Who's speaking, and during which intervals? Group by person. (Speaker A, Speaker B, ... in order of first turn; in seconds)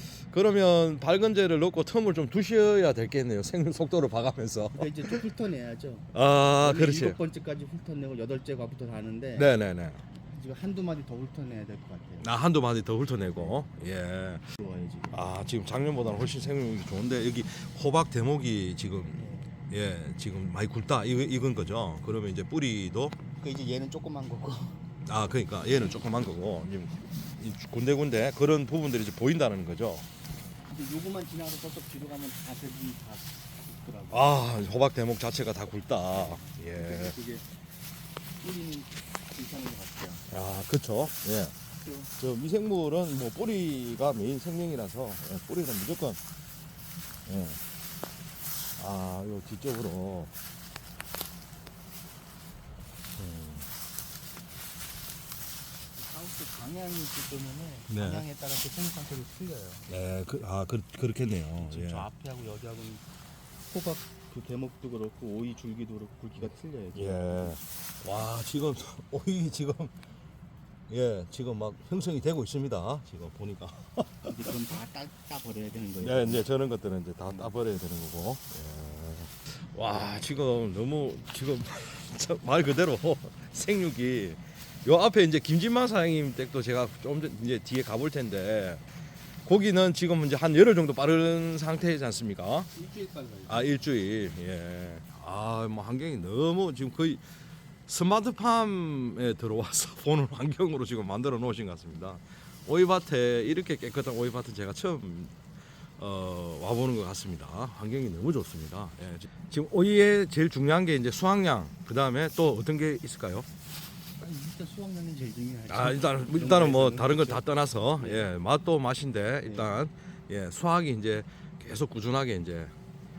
Speaker A: 0.3-5.1, 6.1-7.2, 9.3-10.0, 12.2-14.5, 15.1-23.2, 25.1-30.1, 34.1-37.1, 40.3-41.5, 42.2-46.2, 47.2-47.6, 48.8-50.3, 53.2-53.7, 57.9-58.2, 59.9-62.0, 66.9-69.9, 70.9-74.3, 76.0-88.8, 89.4-92.7, 93.5-97.2, 97.9-105.3, 106.0-113.5, 115.7-122.7
Speaker B: 4.7-9.5, 10.3-12.3, 14.6-15.1, 19.2-19.5, 23.4-24.8, 30.6-34.4, 36.1-37.5, 38.4-40.3, 41.8-42.1, 56.0-59.9, 61.6-63.0, 63.7-67.6, 74.3-76.5, 92.7-93.8, 114.2-118.3, 119.5-119.7